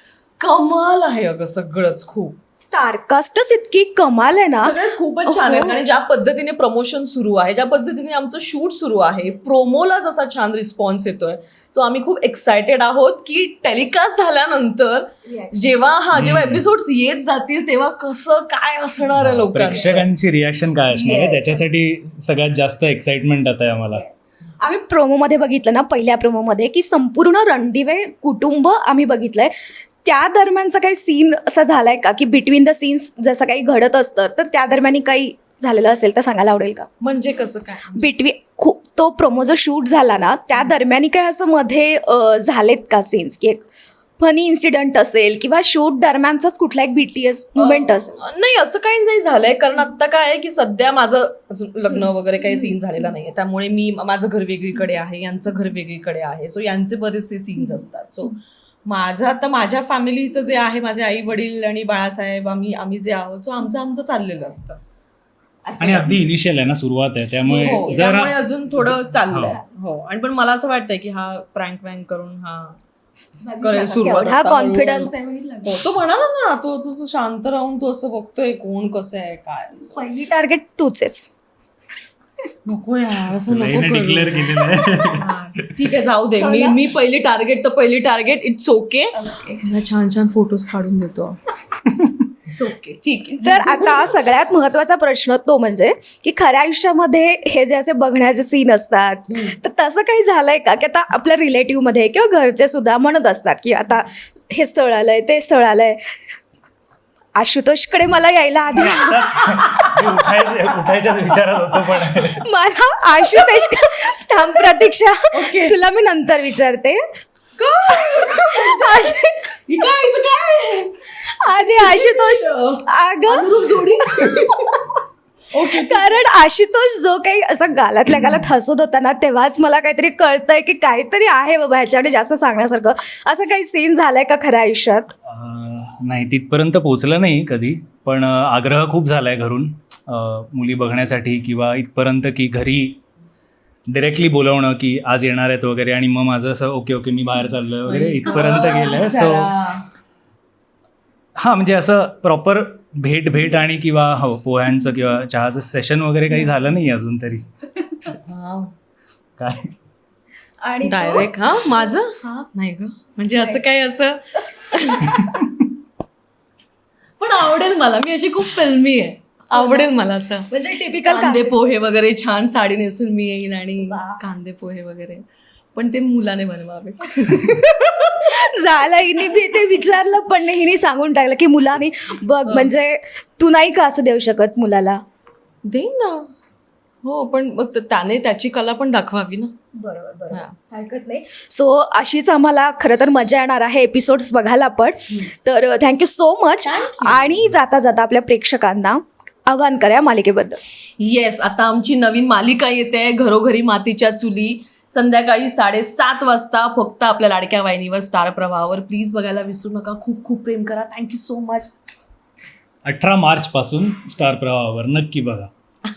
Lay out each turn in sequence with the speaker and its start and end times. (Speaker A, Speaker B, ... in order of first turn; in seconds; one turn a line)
Speaker A: 0.4-2.4
Speaker B: 2.5-5.8
Speaker A: 4.6-20.1
Speaker B: 15.3-15.9
Speaker C: 16.1-16.6
Speaker C: 19.2-24.0
Speaker B: 19.7-20.0
Speaker B: 20.9-21.6
Speaker B: 23.9-36.9
Speaker A: 37.0-38.1
Speaker B: 38.0-43.6
Speaker B: 44.2-48.2
Speaker A: 47.6-64.8
Speaker B: 65.7-66.2
Speaker C: 65.8-68.4
Speaker A: 67.5-72.8
Speaker B: 67.5-68.0
Speaker C: 69.3-69.6
Speaker B: 73.4-75.8
Speaker A: 73.6-75.1
Speaker A: 75.6-80.0
Speaker B: 79.9-81.3
Speaker A: 82.7-91.4
Speaker C: 83.5-85.7
Speaker B: 86.4-86.8
Speaker B: 89.1-89.6
Speaker A: 92.5-94.1
Speaker B: 93.4-106.2
Speaker B: 107.4-109.5
Speaker C: 108.7-112.4
Speaker B: 112.4-117.0
Speaker A: 115.3-115.8
Speaker A: 117.6-124.8
Speaker B: 118.0-119.6
Speaker B: 121.2-124.4
Speaker A: 125.5-126.2
Speaker B: 125.6-135.1
Speaker C: 135.3-143.0
Speaker C: 143.9-149.5
Speaker A: 147.9-149.9
Speaker C: 151.4-157.5
Speaker A: 158.2-158.7
Speaker C: 159.4-159.7
Speaker B: 160.6-162.5
Speaker A: 160.8-165.3
Speaker B: 163.4-163.6
Speaker A: 167.2-170.5
Speaker B: 169.5-169.9
Speaker B: 170.5-171.7
Speaker A: 171.1-175.2
Speaker B: 173.8-174.2
Speaker A: 175.8-178.3
Speaker B: 177.2-185.0
Speaker A: 179.1-179.5
Speaker A: 182.5-182.7
Speaker A: 185.7-186.3
Speaker A: 187.0-189.5
Speaker B: 189.8-200.6
Speaker A: 196.7-197.4
Speaker A: 201.0-211.7
Speaker C: 212.8-215.5